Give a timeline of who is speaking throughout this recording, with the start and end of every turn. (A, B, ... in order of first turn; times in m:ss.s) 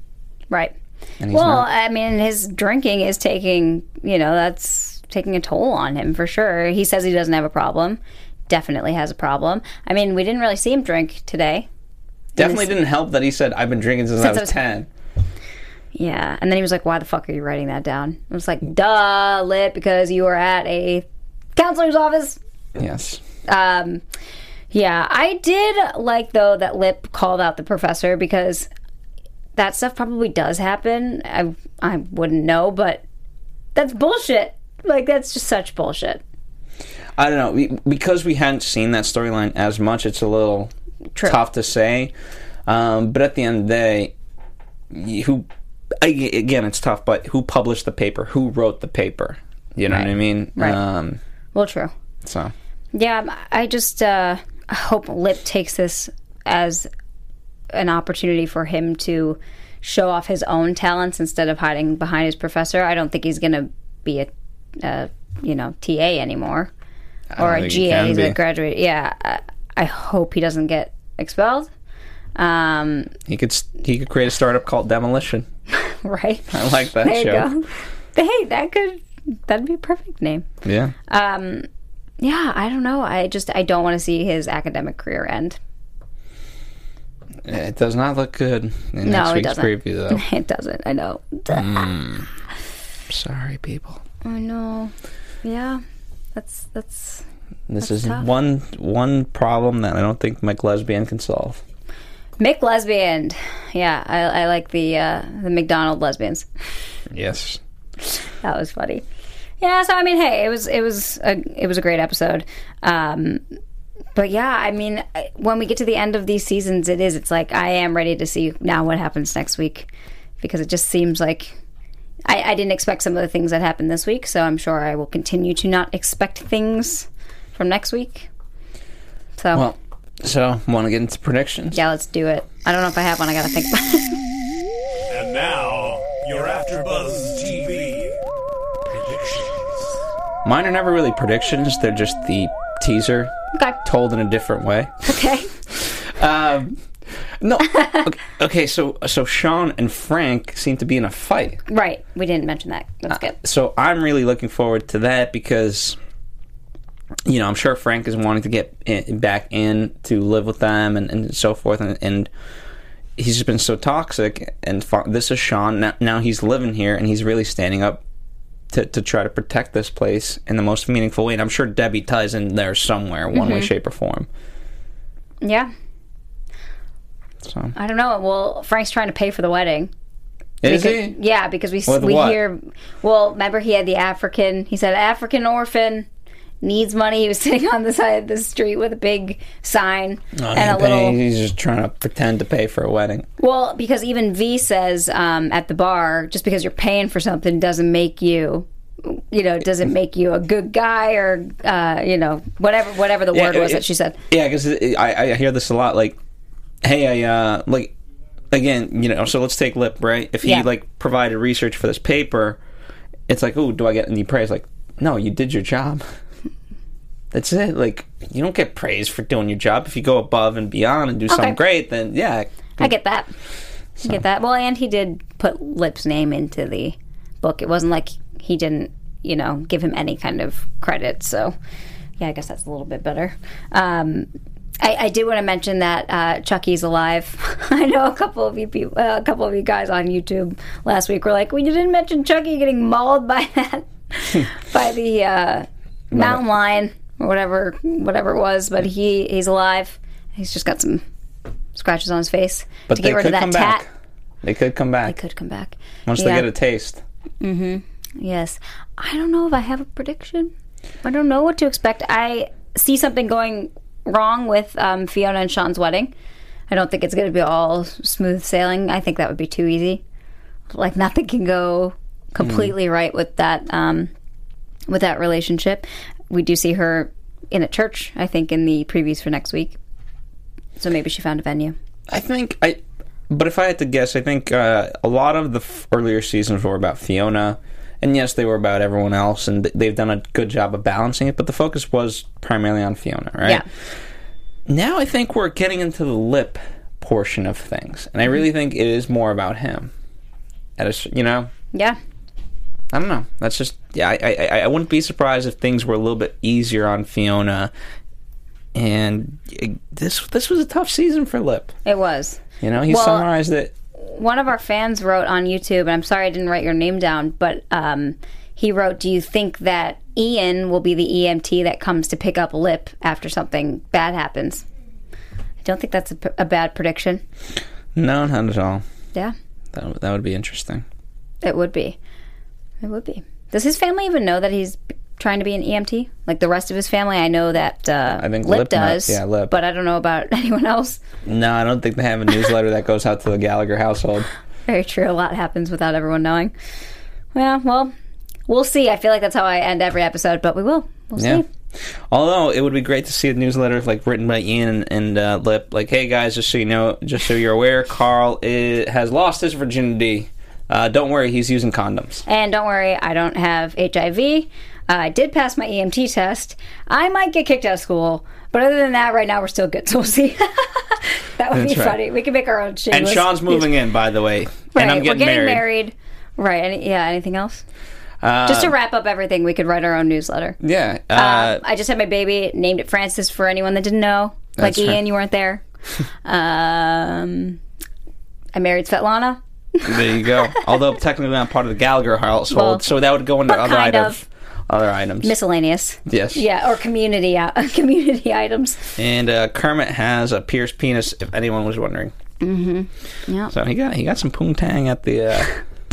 0:01.2-0:01.6 A
0:01.3-0:11.7 B
0:12.3-0:14.9 A
0:12.4-0:12.7 B
0:14.2-0:14.6 B
0:15.9-0:22.4 B
0:22.8-0:23.2 A
0:23.4-0:24.0 B
0:24.7-0:28.7 B
0:29.6-0:33.0 B
0:33.7-0:36.2 B
0:37.2-0:40.7 A
0:41.2-0:42.1 A
0:42.7-0:44.1 A
0:44.9-0:45.5 A
0:46.0-0:51.2 A
0:49.9-0:50.8 B
0:51.6-0:51.9 B
0:52.2-0:52.5 A
0:52.9-0:56.9 B
0:57.7-1:04.3 B
1:04.8-1:06.7 B
1:07.3-1:08.3 A
1:07.4-1:11.7 B
1:12.4-1:13.1 B
1:13.3-1:15.5 A
1:15.8-1:20.4 B
1:16.5-1:17.5 A
1:20.6-1:20.9 A
1:21.1-1:21.7 B
1:22.2-1:25.6 B
1:27.4-1:30.2 A
1:29.0-1:31.9 B
1:31.5-1:32.3 A
1:33.1-1:34.0 A
1:34.2-1:34.9 B
1:35.4-1:35.8 B
1:36.3-1:37.2 B
1:37.7-1:41.6 A
1:37.8-1:38.2 B
1:42.4-1:46.5 B
1:47.1-1:47.6 A
1:48.4-1:49.0 B
1:49.6-1:53.4 B
1:54.1-1:59.9 B
2:00.4-2:01.6 B
2:02.3-2:08.3 B
2:09.4-2:09.7 B
2:09.5-2:11.8 A
2:11.7-2:14.2 B
2:15.1-2:18.2 C
2:18.9-2:19.7 C
2:20.4-2:25.1 A
2:25.0-2:25.5 B
2:25.7-2:26.8 A
2:27.4-2:31.6 A
2:27.7-2:28.0 B
2:31.7-2:33.3 B
2:33.1-2:36.0 A
2:37.2-2:42.3 A
2:43.2-2:48.0 A
2:48.7-2:54.3 A
2:53.3-2:53.7 B
2:55.4-2:55.7 B
2:57.4-2:57.7 A
2:57.7-2:59.9 B
3:00.6-3:01.1 A
3:00.6-3:06.1 B
3:01.9-3:02.4 A
3:06.6-3:11.2 B
3:10.4-3:13.3 A
3:13.4-3:24.2 B
3:23.3-3:26.2 A
3:26.8-3:27.9 A
3:28.5-3:32.6 A
3:30.4-3:30.7 B
3:33.3-3:36.0 A
3:37.3-3:42.9 A
3:41.3-3:41.6 B
3:42.8-3:43.3 B
3:44.0-3:51.6 B
3:52.2-3:54.3 B
3:54.8-4:11.0 B
4:06.1-4:06.4 A
4:11.7-4:13.8 B
4:12.9-4:13.9 A
4:14.4-4:15.2 A
4:15.0-4:16.5 B
4:16.1-4:17.0 A
4:17.4-4:20.5 B
4:21.0-4:26.1 B
4:26.7-4:30.0 B
4:30.7-4:34.1 B
4:32.4-4:32.7 A
4:34.9-4:39.8 B
4:40.8-4:41.7 B
4:42.1-4:53.6 A
4:54.7-4:59.9 A
5:00.8-5:01.5 A
5:02.9-5:07.7 A
5:08.7-5:11.7 A
5:11.8-5:13.3 B
5:12.6-5:13.7 A
5:14.0-5:24.6 B
5:25.6-5:27.2 B
5:28.0-5:28.8 A
5:29.7-5:30.8 A
5:31.4-5:32.0 B
5:32.8-5:41.0 B
5:38.2-5:39.5 A
5:41.2-5:44.3 A
5:44.7-5:46.5 B
5:47.3-5:47.9 B
5:48.5-5:51.4 B
5:51.2-5:51.4 A
5:52.1-6:02.2 A
6:02.3-6:13.7 B
6:11.5-6:12.0 A
6:12.9-6:15.6 A
6:14.7-6:17.6 B
6:18.2-6:18.7 A
6:18.4-6:20.6 B
6:20.6-6:21.6 A
6:21.1-6:25.6 B
6:24.6-6:25.0 A
6:26.2-6:27.6 B
6:28.5-6:30.3 B
6:29.8-6:35.3 A
6:32.5-6:32.8 B
6:33.5-6:34.2 B
6:35.2-6:39.0 B
6:36.1-6:36.4 A
6:39.0-6:42.1 A
6:42.4-6:43.5 B
6:43.5-6:45.5 A